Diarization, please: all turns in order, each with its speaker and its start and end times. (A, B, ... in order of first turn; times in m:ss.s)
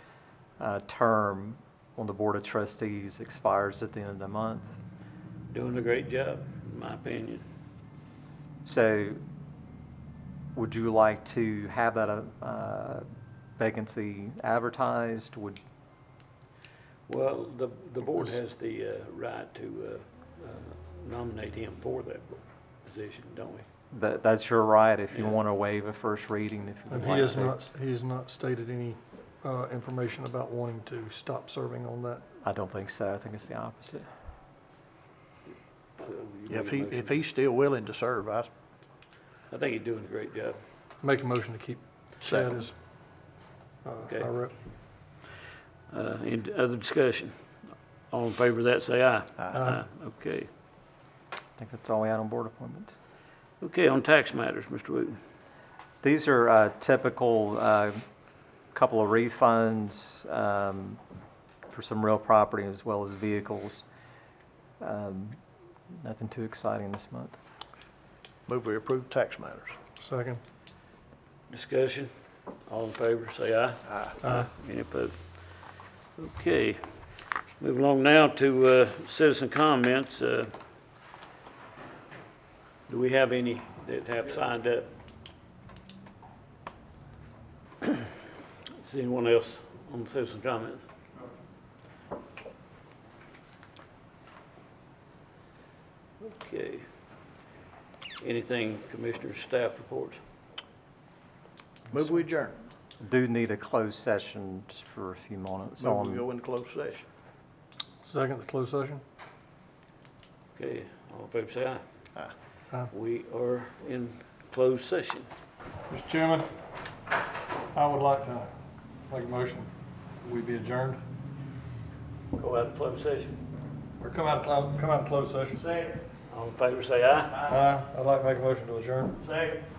0:00.6-0:04.8 A
0:05.5-0:07.4 B
0:08.6-0:09.2 A
0:10.5-0:13.1 A
0:13.6-0:15.6 A
0:17.1-0:23.6 B
0:23.9-0:27.5 A
0:25.1-0:25.4 B
0:26.9-0:32.2 C
0:32.4-0:34.1 A
0:36.0-0:37.2 B
0:36.5-0:38.5 D
0:39.5-0:40.6 B
0:41.0-0:42.7 C
0:42.2-0:42.5 D
0:43.8-0:44.5 C
0:44.0-0:44.3 B
0:45.9-0:50.5 B
0:51.6-0:53.0 A
0:53.6-0:55.2 B
0:56.0-0:58.0 A
0:58.7-1:01.0 A
1:01.7-1:03.8 A
1:04.8-1:05.4 A
1:06.0-1:07.4 A
1:08.5-1:09.7 D
1:10.0-1:10.4 C
1:11.5-1:12.1 B
1:12.6-1:15.4 B
1:16.2-1:17.0 B
1:17.6-1:20.5 B
1:22.9-1:24.9 B
1:28.7-1:30.8 B
1:36.2-1:36.8 B
1:38.2-1:40.2 B
1:41.9-1:42.6 D
1:43.0-1:46.2 A
1:45.8-1:47.0 D
1:48.0-1:49.0 C
1:50.6-1:51.8 B
1:52.9-1:55.3 B
1:55.9-1:56.5 C
1:57.7-1:58.5 C
1:59.1-1:59.7 C
2:00.2-2:01.0 C
2:02.3-2:03.4 B
2:04.0-2:05.6 C
2:05.6-2:06.0 D
2:06.3-2:07.5 B
2:07.4-2:09.2 C
2:09.3-2:09.6 D